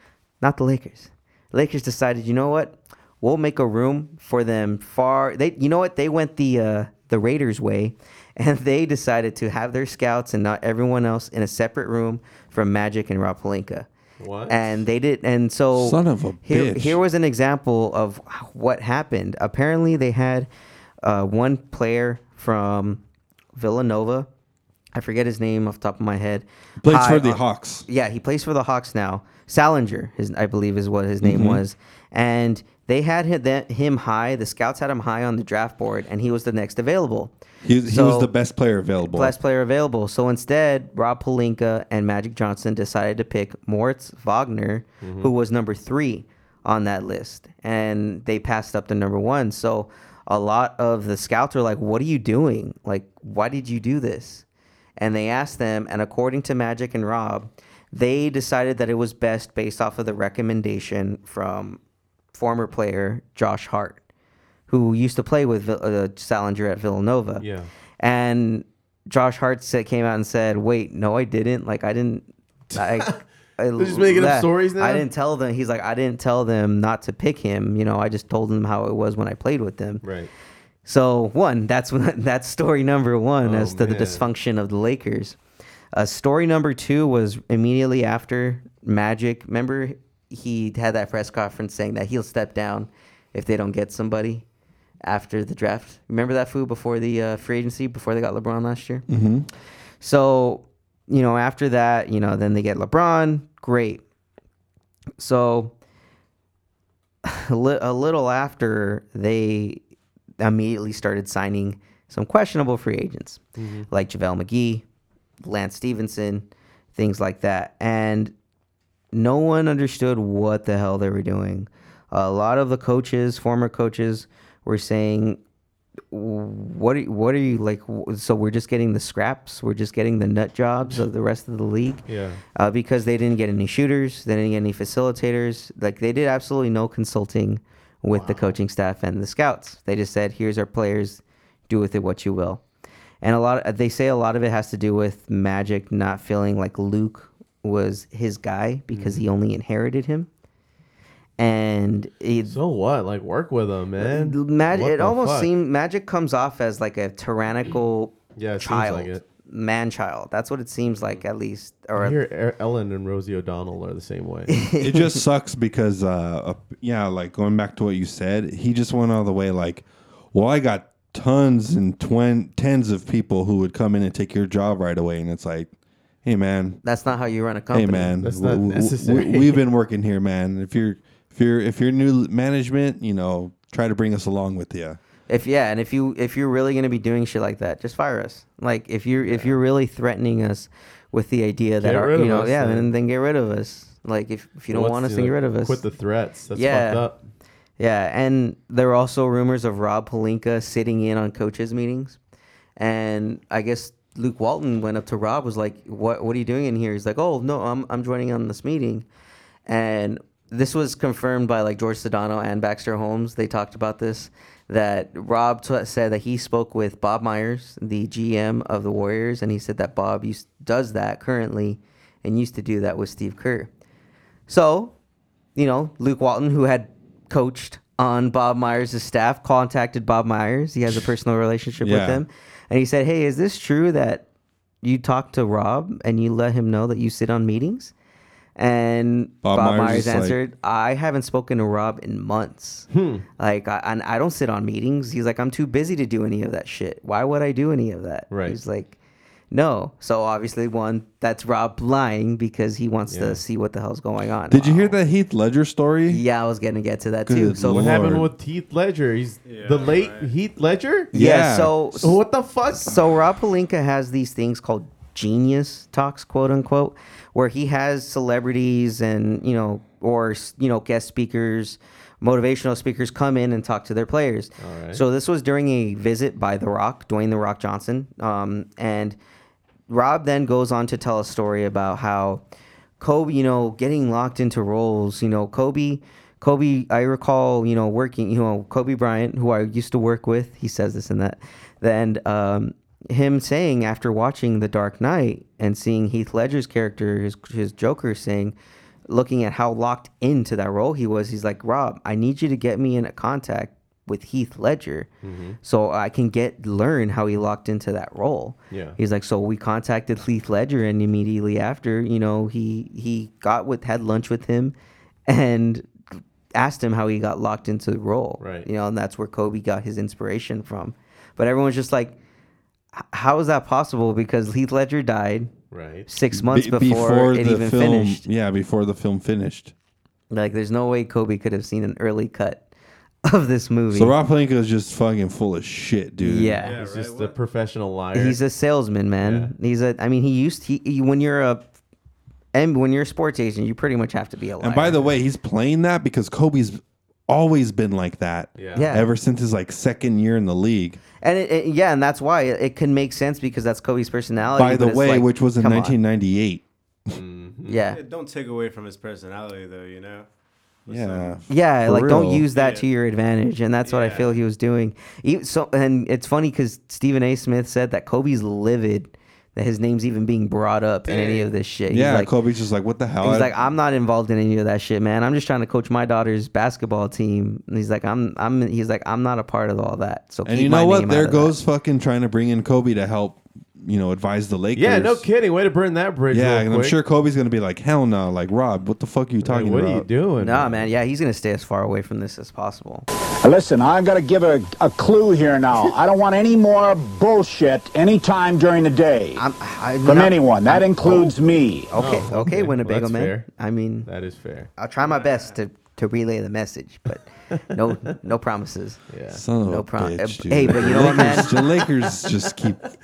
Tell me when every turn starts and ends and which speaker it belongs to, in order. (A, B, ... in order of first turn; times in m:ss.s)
0:00.4-0:13.9 A
0:14.2-0:14.6 B
0:14.5-0:20.5 A
0:15.7-0:17.0 C
0:21.0-0:23.0 A
0:23.5-0:24.3 A
0:24.9-0:38.3 A
0:26.8-0:27.8 C
0:31.2-0:31.6 C
0:37.6-0:39.3 C
0:39.0-0:54.4 A
0:45.0-0:45.3 B
0:55.0-1:01.8 A
1:02.3-1:04.0 A
1:04.7-1:07.4 A
1:07.4-1:07.7 B
1:08.0-1:20.0 A
1:12.7-1:13.2 B
1:13.8-1:15.1 B
1:20.0-1:20.3 B
1:20.8-1:25.4 A
1:23.4-1:24.2 B
1:25.9-1:34.4 A
1:35.0-1:39.0 A
1:39.1-1:39.5 C
1:40.0-1:44.0 A
1:45.2-1:45.7 A
1:47.2-1:49.8 A
1:50.4-1:54.8 A
1:53.6-1:53.9 B
1:55.4-1:58.3 A
1:59.1-2:05.4 A
2:06.1-2:12.0 A
2:12.1-2:12.4 B
2:12.6-2:22.6 A
2:18.1-2:18.5 B
2:23.2-2:30.3 A
2:28.9-2:29.2 B
2:31.4-2:32.6 A
2:32.5-2:35.5 B
2:34.0-2:42.2 A
2:38.4-2:39.2 B
2:42.0-2:44.6 B
2:44.5-2:45.2 A
2:44.8-2:55.7 C
2:56.2-2:56.8 C
2:56.8-2:58.1 A
2:57.7-3:05.0 C
2:58.2-2:59.6 B
3:05.3-3:15.8 A
3:09.2-3:09.6 B
3:11.8-3:12.9 B
3:14.7-3:17.2 B
3:16.5-3:17.1 A
3:17.8-3:22.2 A
3:22.8-3:29.0 A
3:29.6-3:43.7 A
3:44.5-3:44.9 A
3:45.6-3:54.2 A
3:51.8-3:52.2 C
3:54.8-3:57.9 A
3:58.6-4:09.0 A
3:59.4-4:00.4 C
4:02.9-4:03.2 B
4:08.3-4:08.6 B
4:09.5-4:14.9 A
4:13.1-4:13.4 B
4:14.5-4:16.2 C
4:16.1-4:18.0 A
4:17.2-4:18.3 C
4:17.6-4:21.1 B
4:19.4-4:20.3 D
4:21.1-4:22.1 C
4:21.1-4:39.2 A
4:22.0-4:23.0 B
4:34.6-4:35.0 B
4:39.9-4:42.4 A
4:43.0-4:58.5 A
4:59.1-5:05.1 A
5:05.2-5:05.6 B
5:05.6-5:14.8 A
5:08.7-5:09.0 B
5:15.3-5:22.2 A
5:18.4-5:18.7 B
5:22.9-5:25.5 A
5:25.7-5:26.1 B
5:26.1-5:28.2 A
5:26.3-5:29.7 C
5:30.3-5:32.6 A
5:33.2-5:34.1 A
5:33.9-5:36.6 C
5:36.2-5:36.7 A
5:36.6-5:38.4 B
5:36.6-5:37.4 D
5:38.1-5:41.7 A
5:39.2-5:39.5 B
5:42.5-5:45.1 A
5:44.6-5:51.0 C
5:48.6-5:48.9 B
5:48.7-5:49.1 A
5:51.2-5:56.0 A
5:54.6-5:57.1 C
5:57.1-5:57.8 B
5:57.6-5:58.0 A
5:57.9-6:00.2 D
6:00.9-6:01.4 D
6:00.9-6:02.4 C
6:01.5-6:12.3 A
6:02.5-6:02.8 D
6:03.8-6:04.4 D
6:11.1-6:11.4 D
6:11.9-6:13.5 C
6:13.2-6:21.5 A
6:20.4-6:25.2 C
6:24.7-6:27.0 B
6:26.3-6:30.1 C
6:29.4-6:30.9 B
6:30.4-6:33.0 A
6:33.4-6:39.4 E
6:39.3-6:41.3 A
6:40.0-6:42.0 E
6:41.9-6:44.1 A
6:42.0-6:43.5 B
6:44.0-6:44.7 B
6:44.8-6:49.0 A
6:49.1-6:49.4 B
6:49.3-6:52.9 C
6:49.6-6:51.6 A
6:50.8-6:52.3 B